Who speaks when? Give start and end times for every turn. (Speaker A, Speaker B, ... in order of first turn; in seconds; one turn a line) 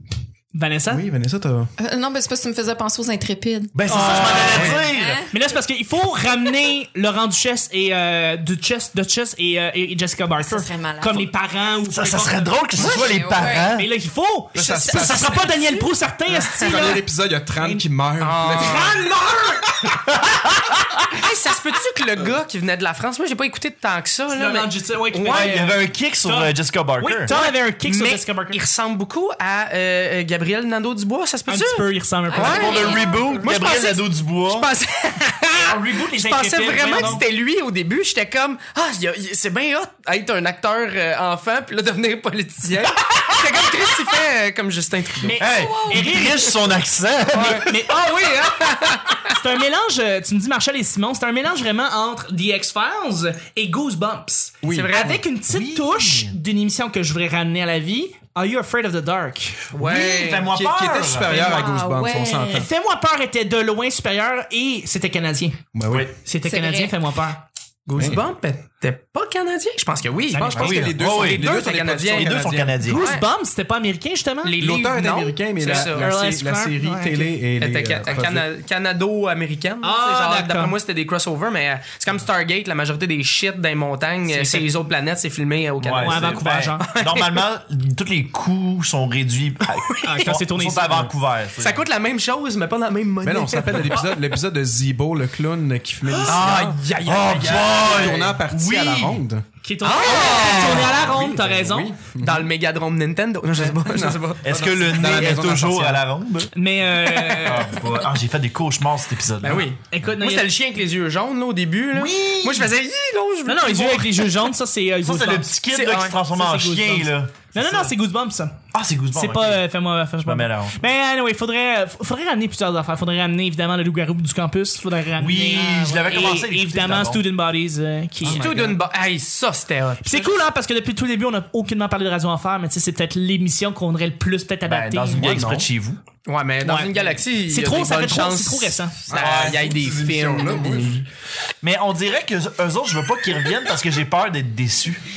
Speaker A: 0.5-1.0
Speaker B: 0.9-1.7
Speaker C: 1.8-5.3
Speaker D: 3.7-5.2
Speaker A: 3.9-12.9
Speaker B: 4.3-4.8
Speaker E: 4.5-4.8
Speaker C: 10.4-11.3
Speaker D: 11.9-13.9
Speaker C: 12.8-13.7
Speaker A: 13.7-17.0
Speaker B: 14.5-19.1
Speaker A: 17.6-17.8
Speaker E: 18.2-19.0
Speaker A: 18.4-19.9
Speaker D: 20.1-21.0
Speaker E: 21.1-25.7
Speaker A: 24.3-28.6
Speaker D: 25.3-27.3
Speaker E: 27.3-45.4
Speaker A: 31.5-32.9
Speaker C: 32.3-33.4
Speaker D: 32.4-34.7
Speaker A: 35.6-37.2
Speaker A: 45.2-46.5
Speaker D: 45.4-47.9
Speaker C: 45.5-46.3
Speaker E: 47.3-49.4
Speaker A: 47.3-48.2
Speaker A: 49.3-59.6
Speaker B: 54.6-54.9
Speaker E: 54.6-55.2
Speaker D: 55.2-56.4
Speaker E: 59.7-60.5
Speaker D: 59.7-61.4
Speaker B: 60.5-62.7
Speaker C: 61.1-62.7
Speaker A: 62.5-65.6
Speaker B: 65.7-66.1
Speaker A: 66.2-67.4
Speaker C: 66.4-66.9
Speaker E: 67.9-73.2
Speaker B: 68.0-68.2
Speaker A: 70.3-70.8
Speaker B: 70.3-72.8
Speaker D: 70.5-71.5
Speaker D: 72.1-73.0
Speaker A: 72.8-74.6
Speaker E: 74.4-76.1
Speaker B: 74.6-78.5
Speaker A: 75.6-77.3
Speaker E: 77.6-87.4
Speaker A: 79.8-80.7
Speaker A: 84.3-84.7
Speaker D: 85.8-91.8
Speaker A: 86.0-86.9
Speaker E: 89.9-90.2
Speaker A: 90.0-91.1
Speaker E: 91.6-94.2
Speaker B: 93.2-96.8
Speaker E: 96.2-98.3
Speaker D: 97.0-99.1
Speaker B: 97.4-99.4
Speaker A: 99.6-101.9
Speaker E: 99.8-100.9
Speaker D: 100.1-100.8
Speaker B: 100.5-102.5
Speaker E: 102.2-105.1
Speaker B: 103.5-106.0
Speaker D: 104.4-106.5
Speaker A: 106.5-107.8
Speaker E: 107.2-107.6
Speaker D: 107.4-109.7
Speaker E: 109.4-114.3
Speaker A: 109.8-110.5
Speaker D: 111.9-112.7
Speaker A: 113.5-118.6
Speaker D: 115.0-117.9
Speaker E: 115.7-116.2
Speaker D: 118.7-119.7
Speaker A: 119.1-128.5
Speaker D: 120.2-120.8
Speaker D: 125.2-127.2
Speaker B: 128.2-128.8
Speaker E: 128.2-130.4
Speaker A: 130.0-135.5
Speaker D: 134.7-136.0
Speaker B: 135.2-135.7
Speaker E: 136.2-141.0
Speaker A: 136.6-138.9
Speaker B: 139.1-141.0
Speaker D: 139.1-139.7
Speaker D: 141.6-145.0